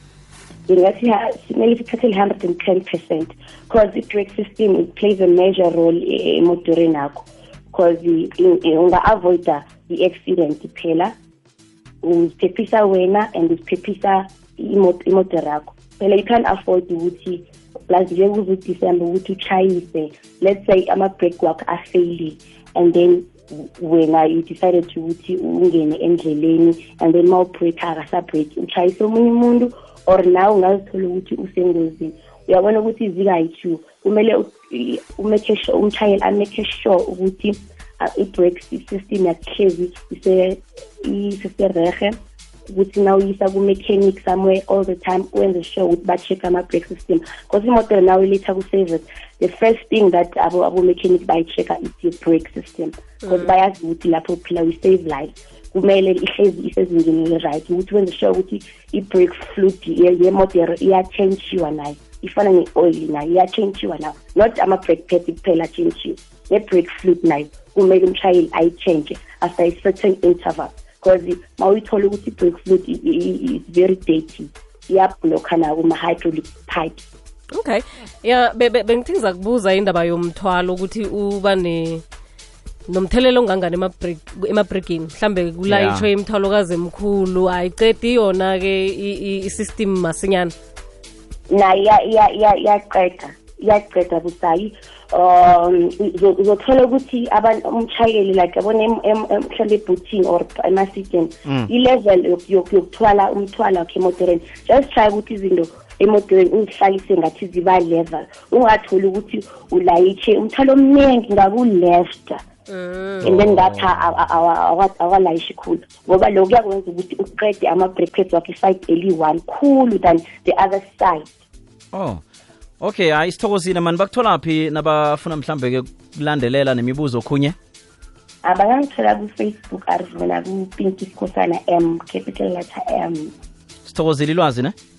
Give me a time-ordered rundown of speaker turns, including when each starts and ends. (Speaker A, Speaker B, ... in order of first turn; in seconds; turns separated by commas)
Speaker A: 0.7-11.1, Speaker A: 12.0-42.1, Speaker A: 42.7-77.0, Speaker B: 77.5-82.0, Speaker B: 82.9-90.5, Speaker C: 85.7-86.1, Speaker A: 91.5-112.4, Speaker B: 112.7-113.3, Speaker C: 113.2-114.0, Speaker A: 113.2-121.4, Speaker C: 121.9-122.2, Speaker C: 122.8-127.5, Speaker A: 128.4-133.3, Speaker C: 133.8-134.7